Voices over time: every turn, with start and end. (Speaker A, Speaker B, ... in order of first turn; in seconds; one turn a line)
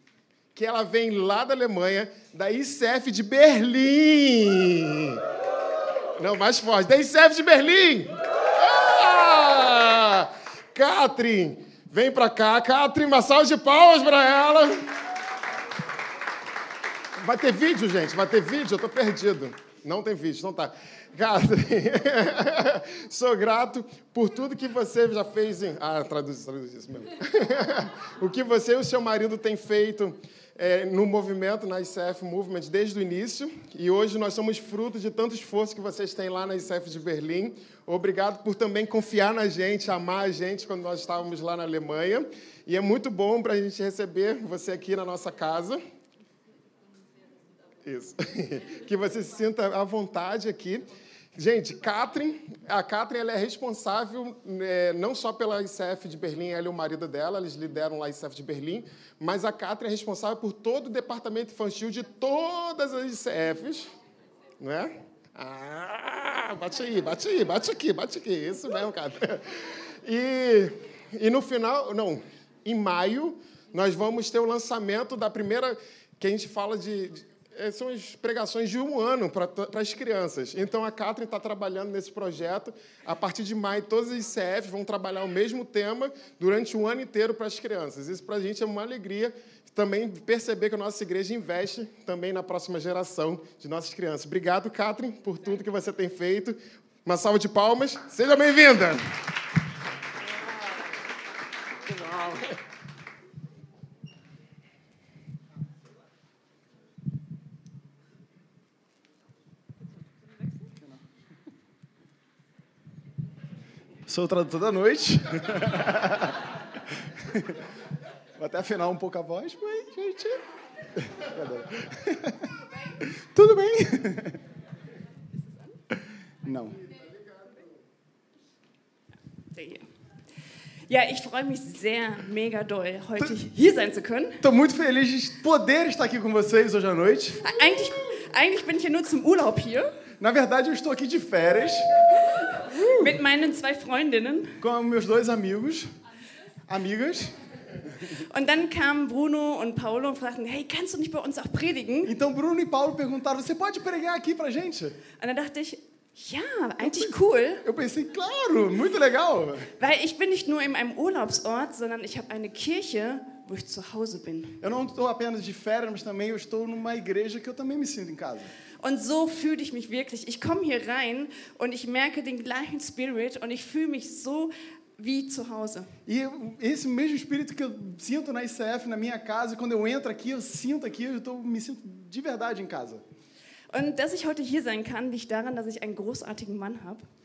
Speaker A: 0.5-5.2
Speaker A: 6.2-14.9
Speaker A: 17.2-45.8
Speaker A: 47.9-63.9
Speaker A: 64.6-99.1
Speaker A: 101.9-102.6
Speaker B: 110.7-111.0
Speaker B: 114.1-117.7
Speaker B: 118.4-120.4
Speaker B: 121.0-124.4
Speaker C: 125.4-125.8
Speaker B: 125.9-126.8
Speaker C: 129.5-129.9
Speaker C: 130.9-134.4
Speaker B: 134.4-137.4
Speaker C: 137.4-140.0
Speaker B: 140.2-141.9
Speaker C: 142.3-144.6
Speaker B: 142.6-143.2
Speaker B: 144.6-145.9
Speaker B: 146.7-147.3
Speaker C: 148.2-152.1
Speaker B: 152.1-155.0
Speaker C: 155.2-157.7
Speaker B: 156.8-159.7
Speaker C: 159.8-164.6
Speaker B: 164.6-168.5
Speaker C: 168.8-175.9
Speaker B: 176.1-183.0
Speaker C: 183.7-187.0